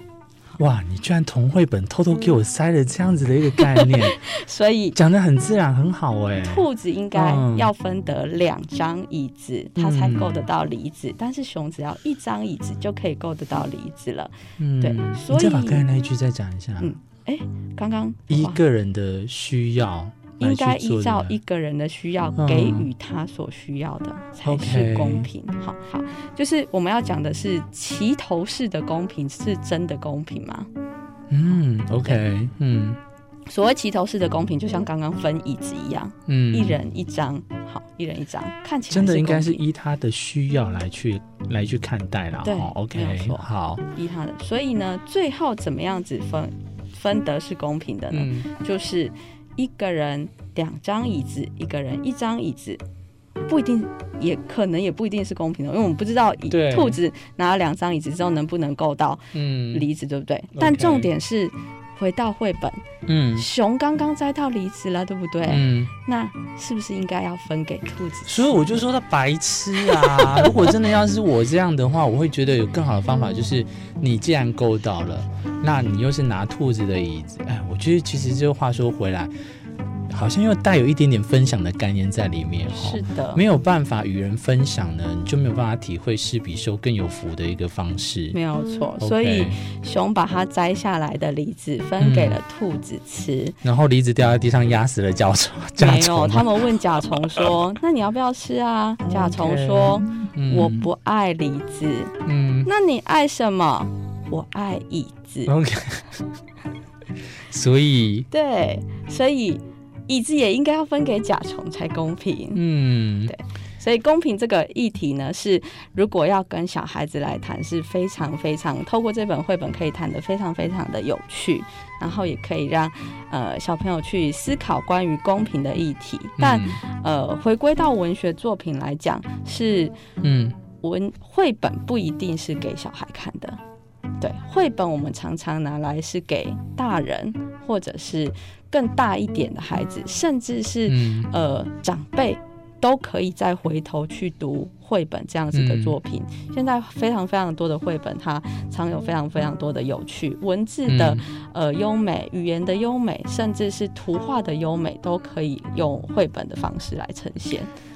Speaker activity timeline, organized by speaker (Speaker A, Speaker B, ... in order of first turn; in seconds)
Speaker A: 0.6-4.2, 4.9-7.7, 9.8-10.5, 14.6-16.9, 18.3-21.4, 22.4-22.9, 24.4-25.3, 31.3-33.0, 36.3-36.8, 38.9-43.8, 48.1-48.5, 56.5-57.0, 59.3-59.9, 60.5-61.1, 63.0-63.5, 65.5-65.9, 68.2-79.3, 80.1-88.4, 89.0-89.6, 92.0-92.4, 93.6-96.6, 97.2-97.5, 99.0-100.9, 102.2-102.7, 105.5-106.2, 107.5-108.3, 112.5-113.3, 126.4-126.8, 130.2-130.6, 140.9-141.3, 145.5-145.9, 150.9-151.2
Speaker B: 3.6-5.0, 6.4-15.8, 16.8-18.6, 20.4-30.7, 33.5-39.6, 42.4-52.8, 53.4-62.8, 63.4-68.6, 69.9-70.8, 82.7-83.4, 88.3-93.6, 95.8-105.5, 108.3-112.6, 113.3-130.0, 130.8-133.6, 134.2-157.7